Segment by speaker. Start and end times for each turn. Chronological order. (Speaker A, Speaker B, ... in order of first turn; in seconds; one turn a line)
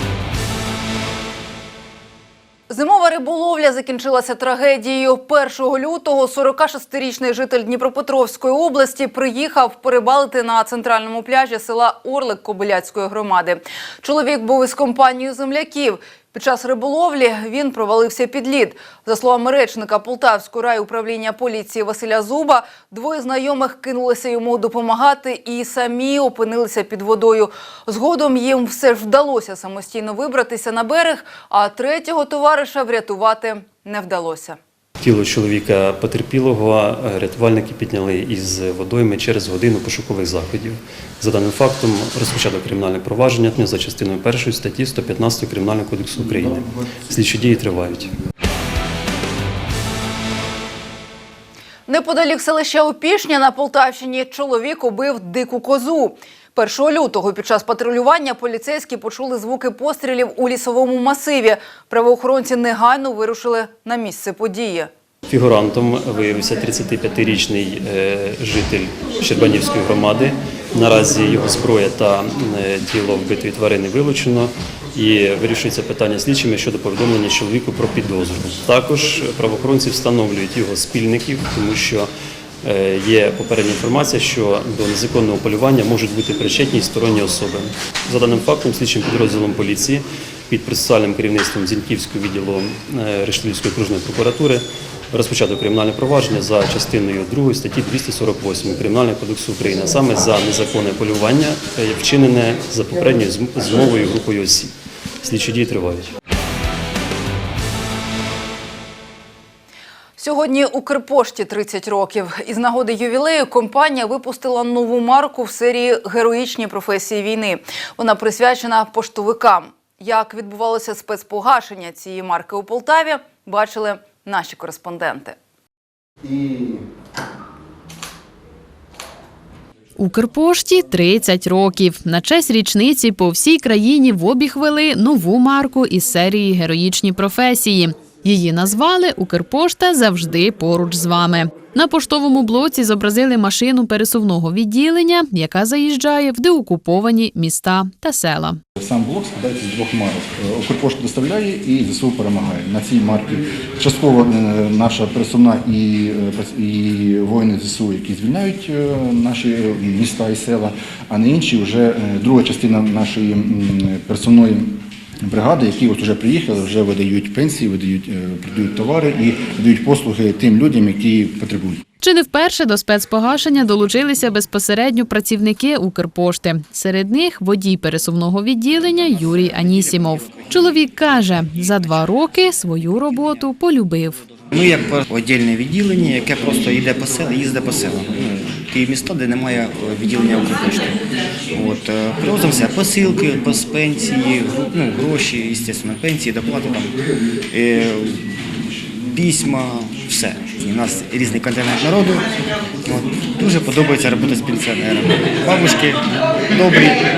Speaker A: 2.7-34.6
Speaker B: 35.0-48.0
Speaker A: 51.9-64.9
Speaker B: 65.3-82.0
Speaker B: 82.7-94.6
Speaker B: 95.1-104.7
Speaker B: 105.2-105.9
Speaker A: 110.2-125.3
Speaker C: 130.0-148.6
Speaker D: 148.8-171.8
Speaker C: 172.0-184.2
Speaker E: 184.5-190.9
Speaker E: 191.5-196.9
Speaker E: 197.5-198.2
Speaker E: 199.1-202.3
Speaker E: 202.8-206.0
Speaker E: 206.5-207.0